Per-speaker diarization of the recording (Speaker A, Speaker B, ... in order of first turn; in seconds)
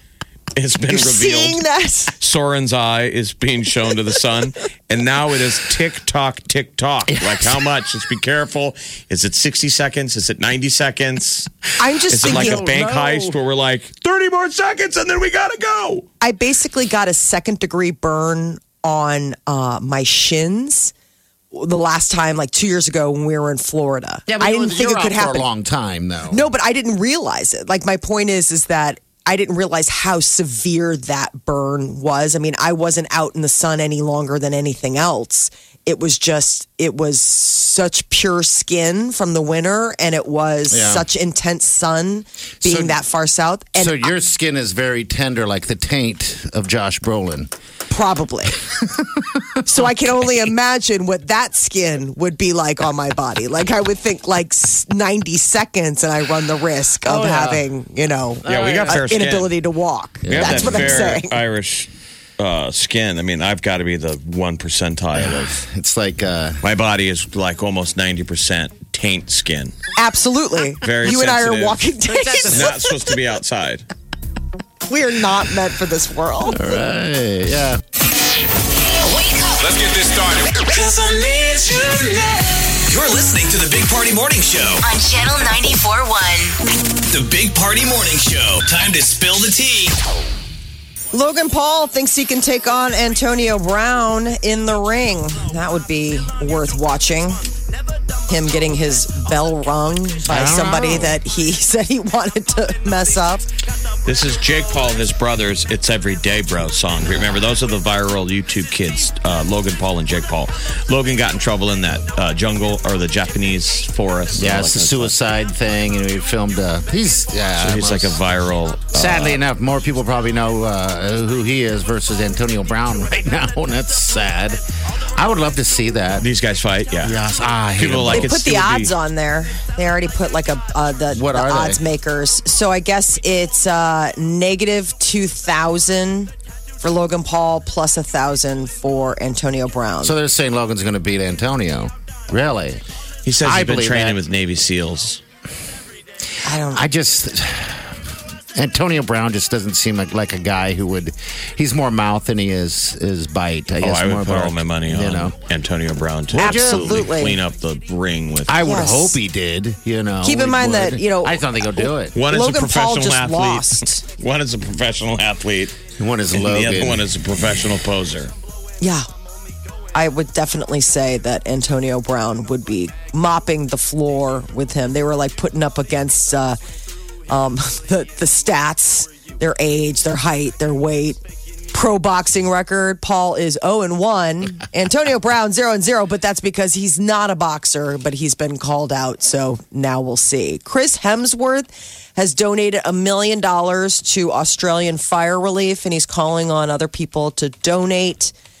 Speaker A: 0.5-1.6, 2.2-11.5, 12.1-16.1, 58.5-59.5, 60.3-65.6, 66.6-69.7, 70.8-73.8, 104.0-115.1, 117.6-119.4, 126.2-127.2, 127.8-128.9, 143.2-145.2, 153.8-158.6, 162.1-165.8, 166.3-168.3
Speaker B: 0.9-2.1, 11.8-13.3, 16.2-20.9, 21.5-25.5, 26.3-44.1, 47.9-48.6, 49.6-61.4, 70.0-72.7, 74.9-76.6, 91.1-97.4, 98.3-103.5, 128.1-140.1, 146.4-146.8, 156.3-157.4, 158.6-159.2, 160.2-164.0, 168.8-169.1, 169.9-176.6, 177.3-181.2, 181.7-198.3
Speaker C: 7.1-7.5, 12.1-13.0, 24.3-26.5, 40.7-41.1, 42.6-43.0, 43.8-47.5, 48.8-49.6, 57.0-57.6, 58.4-59.0, 60.2-61.1, 65.2-66.6, 72.1-72.7, 76.5-77.8, 100.2-101.2, 114.3-118.2, 118.9-124.6, 125.2-126.3, 127.0-128.3, 131.1-131.8, 140.0-142.8, 143.4-144.2, 146.6-155.3, 156.3-157.1, 158.5-162.1, 166.0-167.1
Speaker D: 79.0-79.8, 84.8-86.6
Speaker E: 79.6-84.9, 87.1-89.9